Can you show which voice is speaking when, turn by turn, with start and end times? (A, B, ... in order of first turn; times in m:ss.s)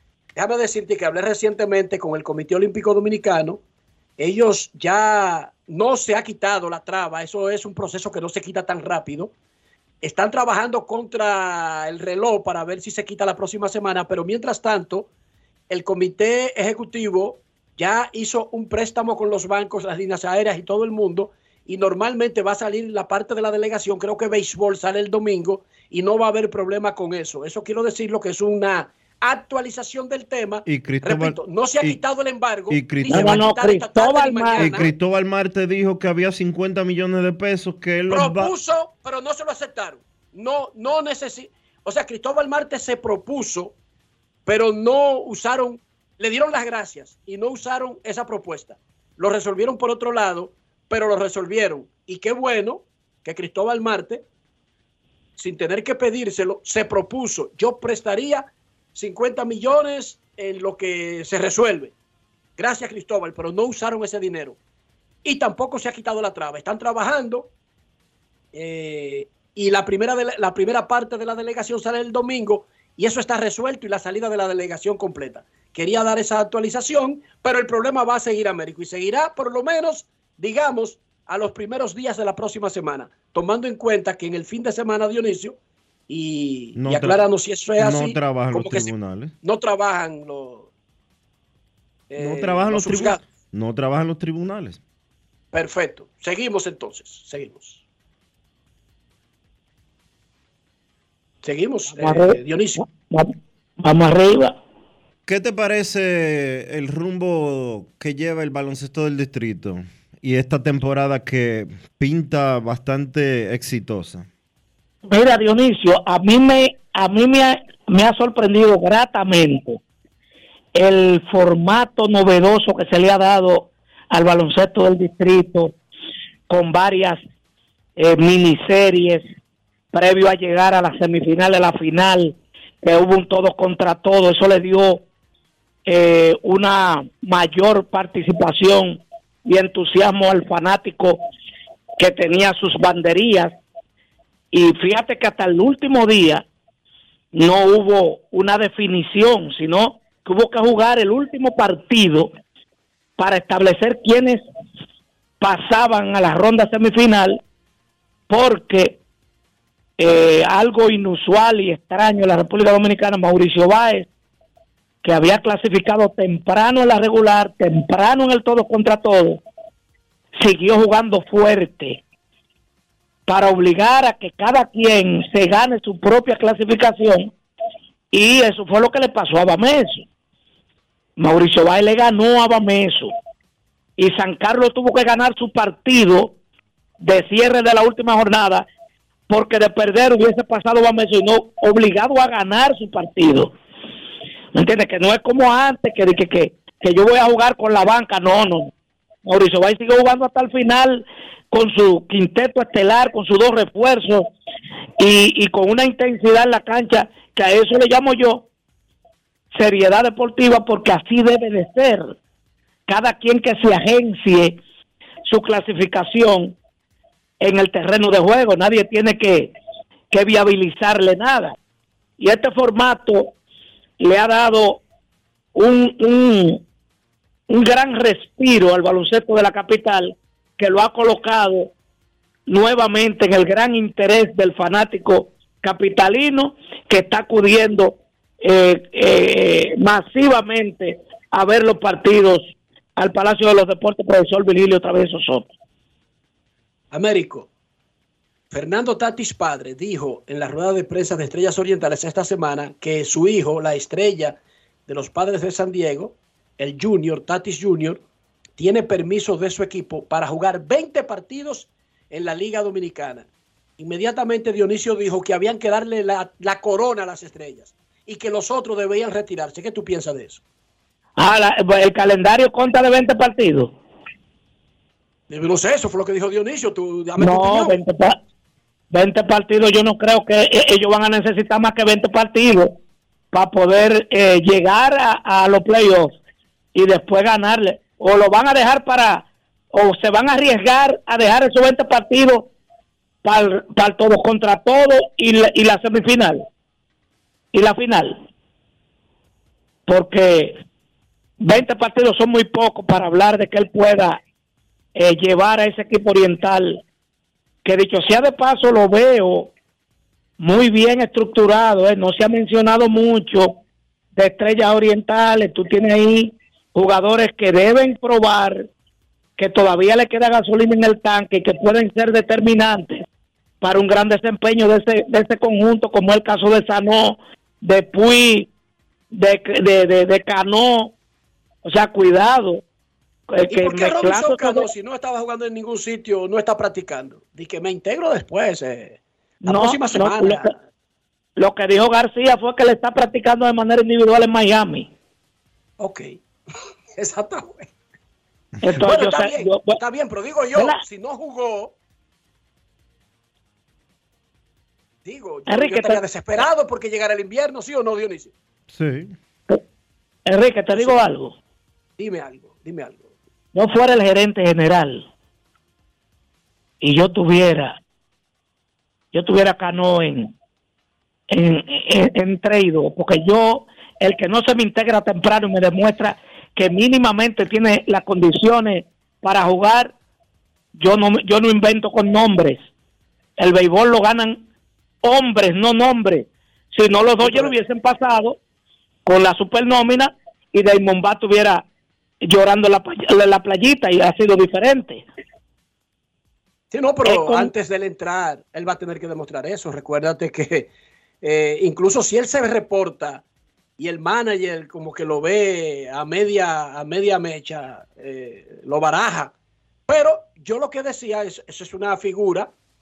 0:00.3-0:03.6 A
0:04.2-0:09.3 A
0:10.0-0:15.1 A
0:15.7-0:34.9 A
0:30.6-0:32.0 B
0:32.7-0:33.4 B
0:33.1-0:34.8 C
0:34.6-0:38.5 B
0:38.1-0:43.7 A
0:44.4-0:54.2 A
0:55.4-1:01.9 A
1:02.6-1:04.6 A
1:05.2-1:07.5 A
1:08.5-1:25.6 A
1:26.1-1:28.9 A
1:26.8-1:27.2 B
1:27.8-1:29.3 B
1:29.4-1:30.7 A
1:32.1-1:33.2 A
1:32.2-1:34.8 B
1:35.5-1:37.8 A
1:41.4-1:42.8 A
1:42.0-1:42.4 C
1:43.0-1:44.5 C
1:45.2-1:54.3 B
1:55.1-1:59.8 C
2:00.7-2:05.7 C
2:06.5-2:07.2 C
2:08.0-2:09.2 C
2:09.9-2:15.0 C
2:15.9-2:21.2 C
2:22.0-2:23.5 C
2:24.5-2:26.4 C
2:27.3-2:32.3 C
2:33.2-2:34.4 C
2:35.4-2:37.4 C
2:38.3-2:39.0 C
2:40.0-2:44.1 C
2:45.0-2:49.4 C
2:50.4-2:52.0 C
2:53.3-2:57.3 C
2:58.1-3:00.0 C
3:01.2-3:03.1 C
3:04.0-3:06.3 C
3:07.0-3:08.7 C
3:09.3-3:13.5 C
3:14.5-3:18.7 C
3:19.2-3:24.3 C
3:25.0-3:28.4 C
3:29.5-3:32.1 C
3:32.9-3:34.6 C
3:35.3-3:36.5 C
3:37.4-3:39.5 C
3:40.1-3:41.5 C
3:42.2-3:43.3 C
3:44.0-3:44.8 C
3:45.5-3:46.6 C
3:47.5-3:51.7 C
3:52.5-4:05.5 C
4:06.9-4:07.5 A
4:08.5-4:18.0 A
4:18.6-4:23.2 A
4:23.8-4:30.4 A
4:31.2-4:33.7 C
4:35.3-4:37.8 A
4:37.2-4:38.2 C
4:38.9-4:42.8 C
4:43.3-4:46.2 C
4:46.7-4:52.5 C
4:53.2-4:56.4 C
4:57.5-4:58.2 C
4:59.9-5:00.6 C
5:01.4-5:04.2 C
5:05.0-5:06.8 C
5:07.6-5:09.5 C
5:10.4-5:13.5 C
5:14.2-5:18.6 C
5:19.4-5:23.0 C
5:23.6-5:28.5 C
5:29.1-5:30.9 C
5:31.6-5:32.6 C
5:33.3-5:34.7 C
5:33.5-5:40.5 A
5:39.4-5:40.5 C
5:41.4-5:44.9 C
5:45.8-5:46.1 A
5:47.0-5:47.7 A
5:48.6-5:49.8 C
5:48.8-5:51.7 A
5:55.0-5:58.3 A
5:55.5-5:56.0 C
5:58.7-5:59.1 B
6:00.3-6:01.3 C
6:00.7-6:01.0 A
6:02.0-6:03.1 A
6:03.5-6:05.1 C
6:06.8-6:07.8 C
6:09.1-6:10.3 C
6:11.3-6:19.9 C
6:20.7-6:22.6 C
6:23.4-6:24.4 C
6:25.0-6:28.4 C
6:27.2-6:27.6 A
6:29.0-6:31.6 C
6:32.2-6:35.0 C
6:36.7-6:40.7 A
6:37.0-6:37.5 C
6:41.2-6:43.2 A
6:43.8-6:49.3 A
6:49.9-6:52.5 A